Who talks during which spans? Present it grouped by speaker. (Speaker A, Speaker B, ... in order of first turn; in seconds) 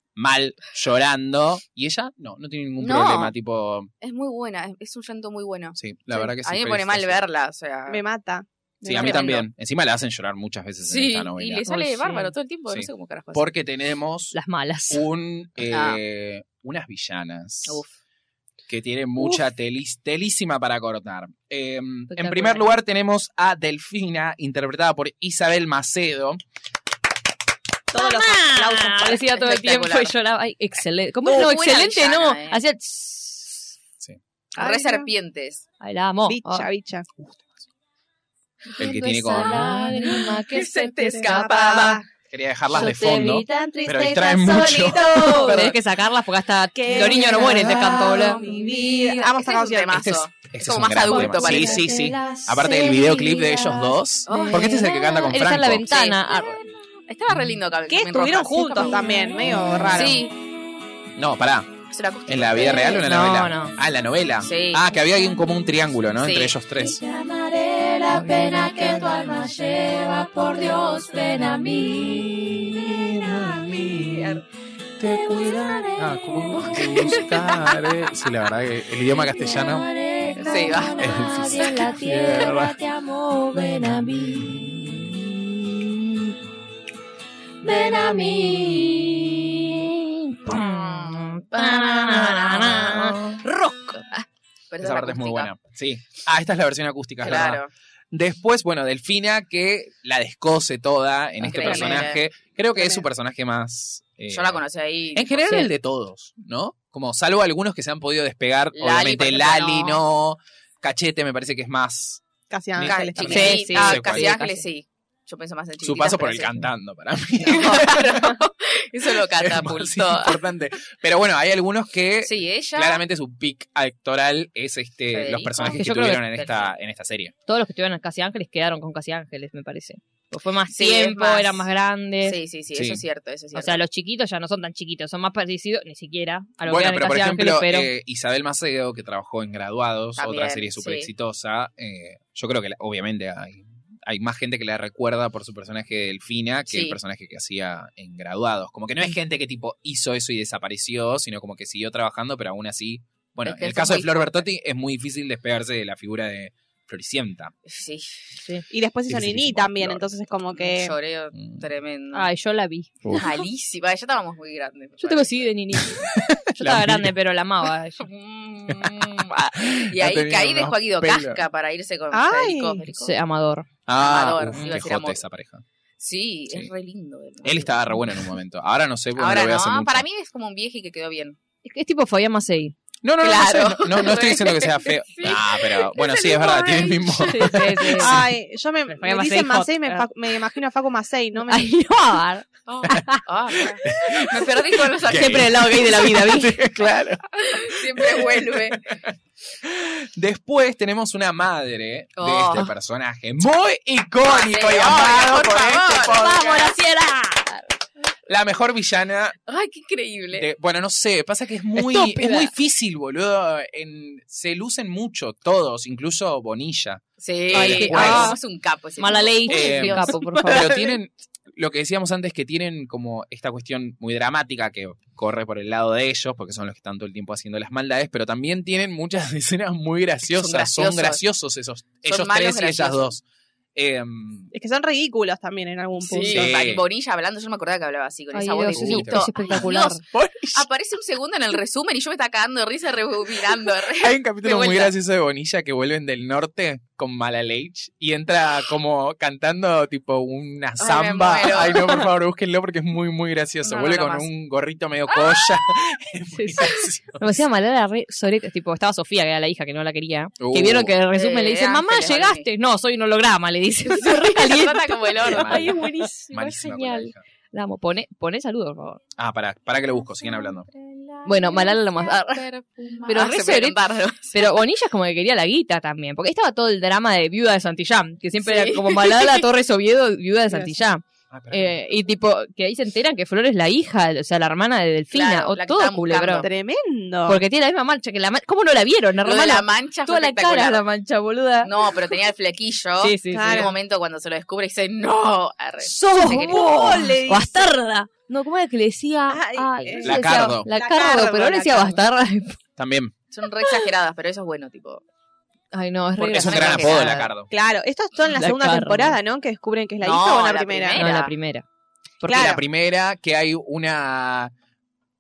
Speaker A: 0.2-3.9, 5.8-7.2, 8.8-11.7, 12.7-14.4, 14.9-17.8, 18.7-26.4, 37.2-37.6, 38.8-39.8, 42.3-45.7, 49.9-56.0, 61.2-61.7, 62.3-67.0, 72.2-74.4, 75.0-79.9, 80.9-82.8, 84.2-85.2, 92.9-93.4, 94.8-97.6, 98.1-104.6, 105.2-112.2, 112.8-114.4, 115.8-118.4, 119.4-127.3, 132.7-133.0, 136.7-157.5, 159.1-160.1, 161.3-161.7, 165.8-167.1, 168.7-171.4, 173.9-175.6, 177.4-180.1, 183.0-188.2, 193.6-206.6, 208.3-209.4, 210.3-218.4, 219.5-233.2, 233.8-234.5, 236.3-236.8, 238.7-240.7, 243.9-257.4, 260.4-260.9, 265.2-267.2, 269.2-270.7, 281.3-281.8, 300.0-300.7, 302.8-303.1, 306.3-307.5, 312.3-314.5
Speaker B: 2.8-3.3, 4.0-8.0, 8.8-9.5, 10.9-13.5, 15.7-16.0, 17.7-18.0, 29.3-30.1, 31.2-32.6, 34.5-35.6, 40.5-42.0, 49.2-51.9, 54.3-54.9, 55.9-56.2, 57.1-59.0, 59.9-60.3, 61.9-63.1, 64.4-64.8, 66.2-66.5, 80.4-81.1, 90.5-93.1, 94.7-95.5, 97.2-97.7, 101.4-102.2, 104.3-105.7, 108.8-110.0, 112.8-116.6, 117.4-120.4, 122.2-123.0, 125.1-126.7, 130.7-131.7, 132.2-133.8, 140.2-141.1, 146.7-147.0, 153.4-154.4, 157.7-158.3, 160.6-162.3, 163.1-165.4, 168.0-173.2, 174.0-175.2, 176.0-178.0, 179.2-181.4, 183.2-187.5, 192.7-195.7, 197.4-199.0, 202.2-202.7, 204.2-206.8, 209.5-210.5, 217.2-220.3, 230.3-231.2, 232.1-233.1, 236.0-240.0, 240.5-244.9, 250.8-252.1, 253.6-254.3, 255.1-255.5, 261.1-262.5, 263.9-265.8, 271.0-274.6, 278.4-279.5, 285.1-286.5, 289.2-290.8, 291.6-296.7, 303.3-305.0, 306.2-307.2, 310.0-311.3
Speaker C: 7.9-9.2, 27.9-29.2, 34.6-35.1, 36.3-37.1, 41.3-42.0, 44.9-45.7, 46.8-50.0, 57.9-60.2, 101.6-102.0, 102.8-103.0, 112.5-113.7, 158.7-161.0, 172.1-172.8, 187.9-191.7, 234.5-236.6, 280.5-280.8, 286.4-287.4, 293.3-293.8, 296.3-297.7, 299.3-302.0, 307.5-311.1, 312.2-312.6
Speaker D: 11.7-12.3, 14.3-15.0, 22.1-22.7, 27.9-33.7, 35.8-36.7, 38.8-40.5, 45.4-48.4, 54.3-56.6, 62.6-63.8, 90.2-94.2, 113.3-114.7, 125.7-126.2, 127.5-132.4, 133.5-137.9, 162.1-163.2, 165.0-168.1, 173.0-173.7, 181.6-182.8, 187.1-188.1, 188.9-190.1, 191.4-193.2, 195.1-196.6, 206.1-207.7, 211.8-212.5, 217.5-218.4, 219.0-220.9, 238.3-240.0, 256.3-269.0, 271.2-272.5, 273.1-273.8, 274.3-286.5, 287.3-292.1, 293.0-293.7, 295.8-302.6, 305.7-307.3, 308.3-309.2, 311.0-311.6, 312.2-312.6
Speaker E: 38.8-42.0, 42.7-45.6, 46.9-49.4, 51.1-54.0, 66.8-74.4, 75.0-77.4, 79.1-84.9, 87.6-90.0